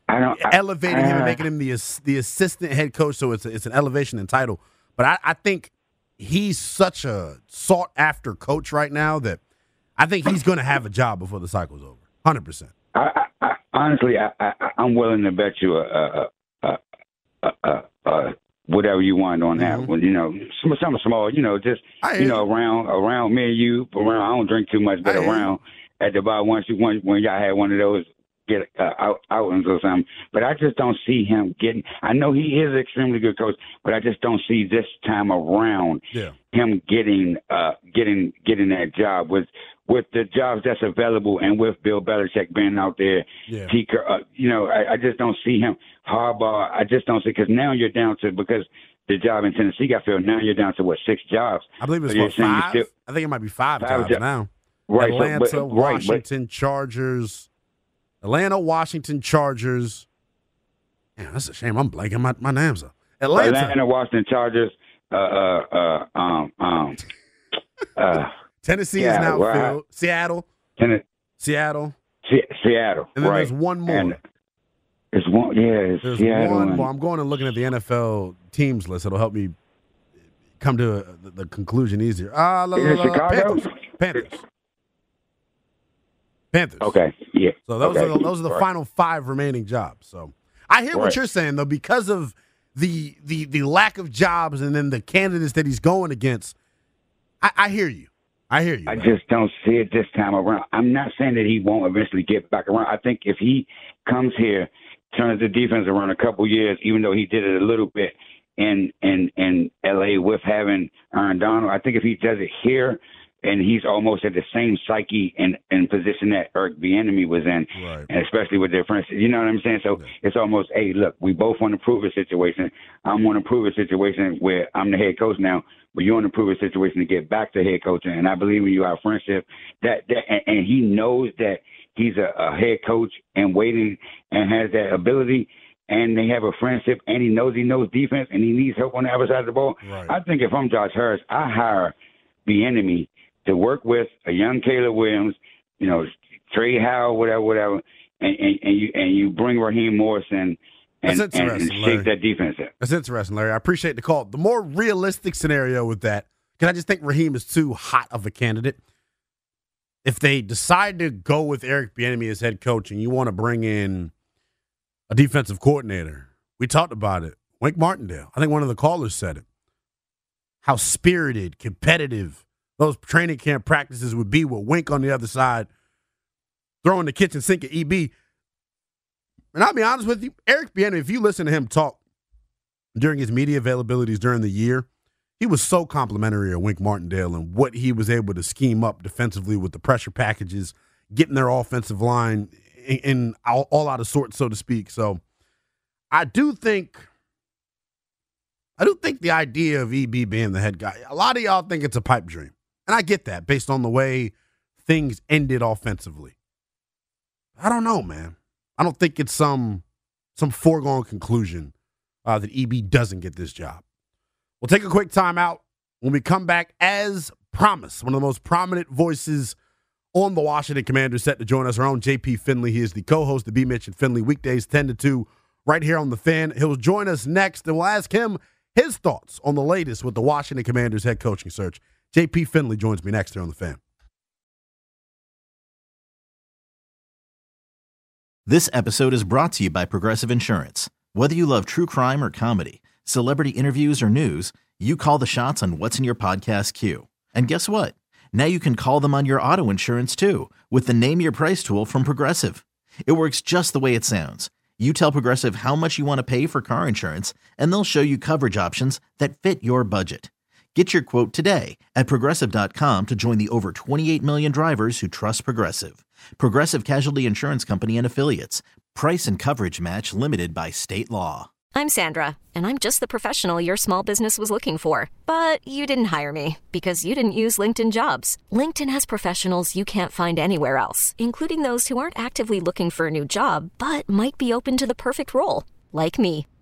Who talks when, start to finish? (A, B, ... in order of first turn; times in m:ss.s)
0:00.1-0:01.4 A
0:00.4-0:09.4 B
0:10.0-0:12.7 B
0:13.0-0:16.8 A
0:17.4-0:52.9 A
0:19.6-0:19.9 B
0:22.0-0:22.4 B
0:25.0-0:25.5 B
0:51.8-0:57.5 B
0:53.8-0:54.2 A
0:54.9-0:56.2 A
0:58.2-1:00.1 B
1:01.2-1:03.8 B
1:03.4-1:07.1 A
1:08.0-1:08.3 A
1:08.6-1:10.5 B
1:09.0-1:09.8 A
1:10.8-1:11.0 A
1:11.4-1:12.0 B
1:12.3-1:14.2 A
1:13.2-1:14.2 B
1:15.1-1:16.9 A
1:16.0-1:19.5 B
1:20.6-1:24.4 B
1:22.8-1:23.7 A
1:26.5-1:27.0 B
1:26.8-1:28.6 A
1:27.7-1:36.6 B
1:30.9-1:31.2 A
1:37.4-1:39.1 B
1:38.9-2:21.9 A
1:57.8-1:58.1 B
2:19.8-2:20.1 B
2:22.5-2:32.7 A
2:31.1-2:32.1 B
2:32.8-2:38.8 B
2:40.0-2:44.1 B
2:45.1-2:49.4 B
2:50.6-2:55.7 B
2:56.8-2:58.1 B
2:59.5-3:02.0 B
3:03.0-3:04.9 B
3:05.4-3:15.2 B
3:16.1-3:17.1 B
3:18.8-3:26.4 B
3:27.6-3:29.8 B
3:30.4-3:31.7 B
3:32.2-3:33.8 B
3:34.6-3:39.6 B
3:40.1-3:53.8 B
3:58.5-4:31.5 C
4:31.7-4:46.5 D